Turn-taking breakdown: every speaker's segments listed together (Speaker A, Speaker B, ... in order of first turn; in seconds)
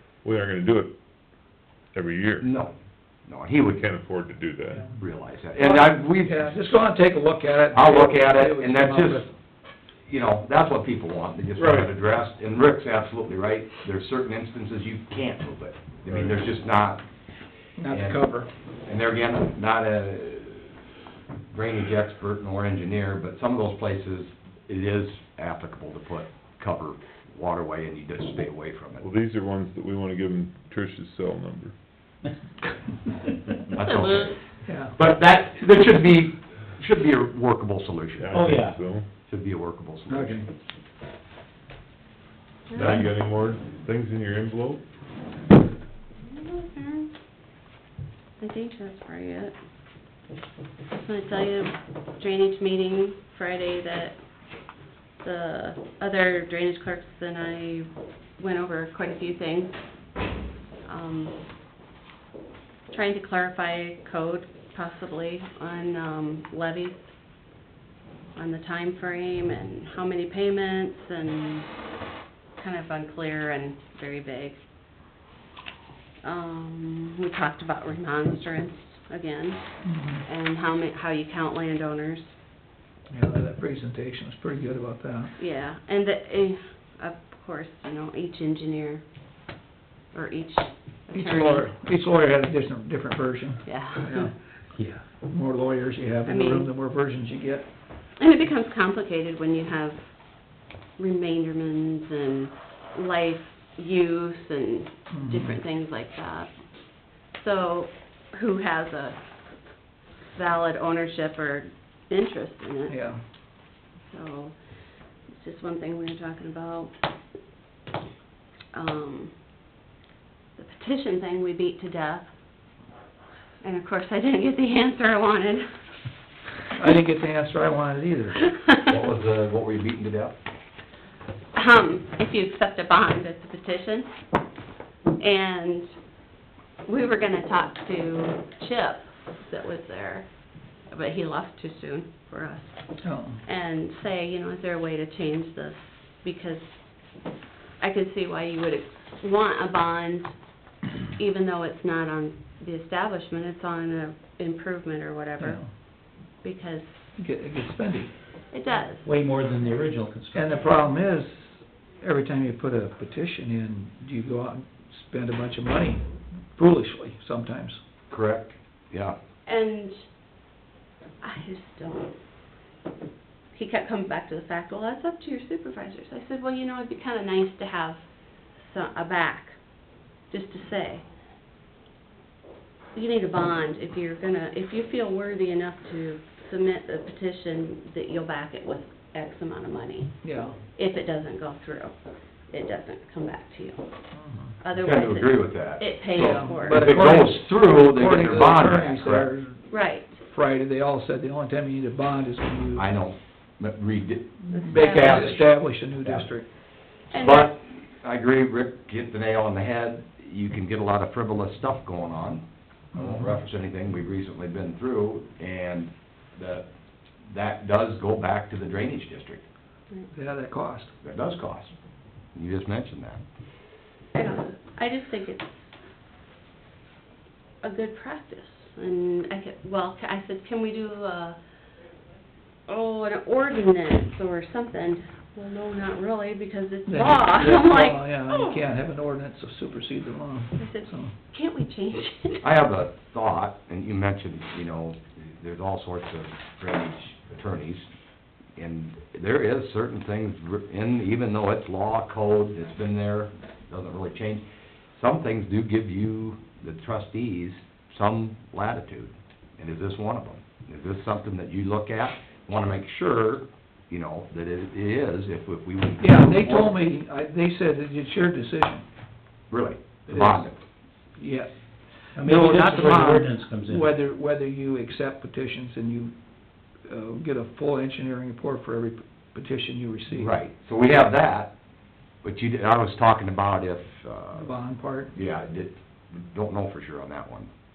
Speaker A: 0.2-1.0, 1.9-2.5, 3.6-4.9, 29.0-31.8, 38.2-39.1, 42.7-44.8
Speaker B: 2.4-2.7, 3.3-3.8, 5.0-6.7, 7.7-9.2, 10.1-17.0, 17.9-18.2, 18.8-20.8, 21.5-29.1, 33.7-38.4, 39.3-40.4, 128.8-130.3, 168.1-169.2, 194.8-199.3, 202.7-205.4, 206.0-206.3, 207.1-216.7, 217.3-219.4, 221.0-221.7, 222.3-223.2, 242.4-247.8, 248.6-266.8, 269.5-270.6, 280.1-281.5, 282.2-284.5, 285.1-287.5
Speaker C: 5.6-9.3, 17.8-18.5, 34.6-34.9, 40.1-40.5, 79.8-80.2, 83.1-85.3, 91.1-94.3, 95.2-97.6, 105.1-105.6, 112.9-113.2, 126.7-128.4, 143.0-143.4, 155.4-155.7, 157.2-158.1, 160.3-166.0, 166.5-167.8, 190.2-190.6, 194.1-194.5, 196.1-202.9, 204.6-206.5, 213.0-213.2, 220.1-220.9, 236.9-241.1, 266.0-268.8, 270.1-270.4, 271.2-271.5, 272.2-276.1, 276.8-280.3, 284.4-285.1
Speaker D: 33.8-34.4, 42.7-43.1, 46.2-47.1, 48.4-49.5, 50.9-54.1, 55.2-59.8, 60.8-61.4, 62.9-67.1, 68.3-71.7, 72.6-74.6, 76.2-82.3, 85.4-89.0, 90.1-91.7, 93.6-94.3, 96.2-96.7, 98.2-100.0, 101.0-106.5, 107.1-109.2, 110.3-113.0, 114.1-114.5, 115.3-116.9, 118.7-119.3, 120.5-122.3, 123.6-125.7, 131.5-134.1, 135.2-135.9, 136.8-140.3, 140.9-142.8, 143.4-146.8, 147.8-150.3, 151.2-157.0, 158.5-159.0, 169.4-169.9, 171.2-172.1, 173.5-178.0, 178.6-179.6, 180.3-181.0, 182.9-190.2, 190.7-191.9, 192.5-193.9, 194.6-197.1, 199.7-200.2, 204.5-205.6, 207.1-207.5, 224.1-225.7, 227.6-231.4, 232.7-238.6, 240.6-242.4
Speaker E: 38.3-38.8, 94.7-95.0, 159.0-160.8, 272.1-274.0